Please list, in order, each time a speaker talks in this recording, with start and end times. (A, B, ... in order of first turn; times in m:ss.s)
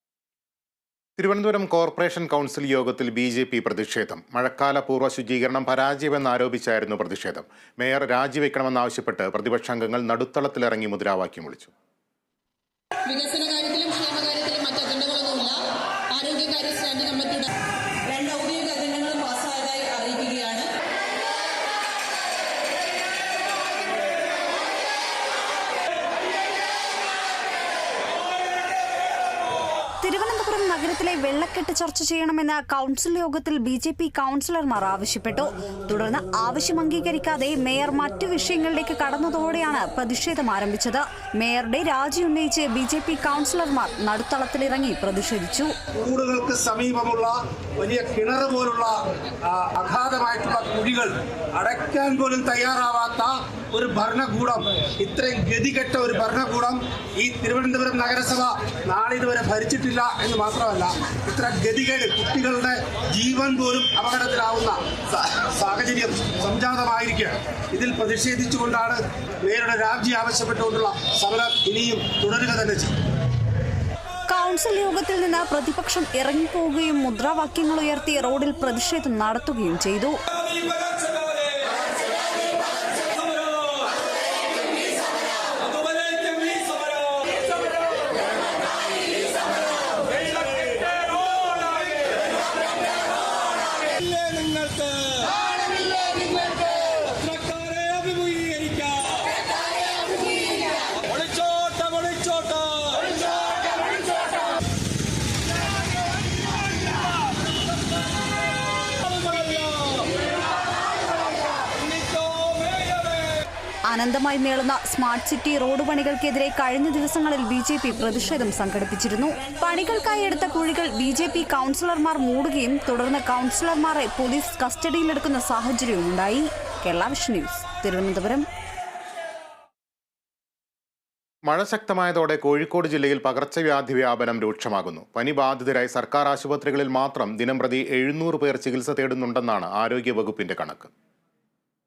0:01.2-0:11.7 A
0:13.1-0:15.6 B
0:16.2-0:17.5 B
0:18.1-0:20.7 B
0:30.0-0:45.7 C
0:46.0-1:12.9 D
1:14.3-1:20.2 C
1:34.0-1:35.2 E
1:37.5-1:38.9 E
1:41.6-1:42.6 E
1:53.9-2:08.5 C
2:11.4-2:20.9 A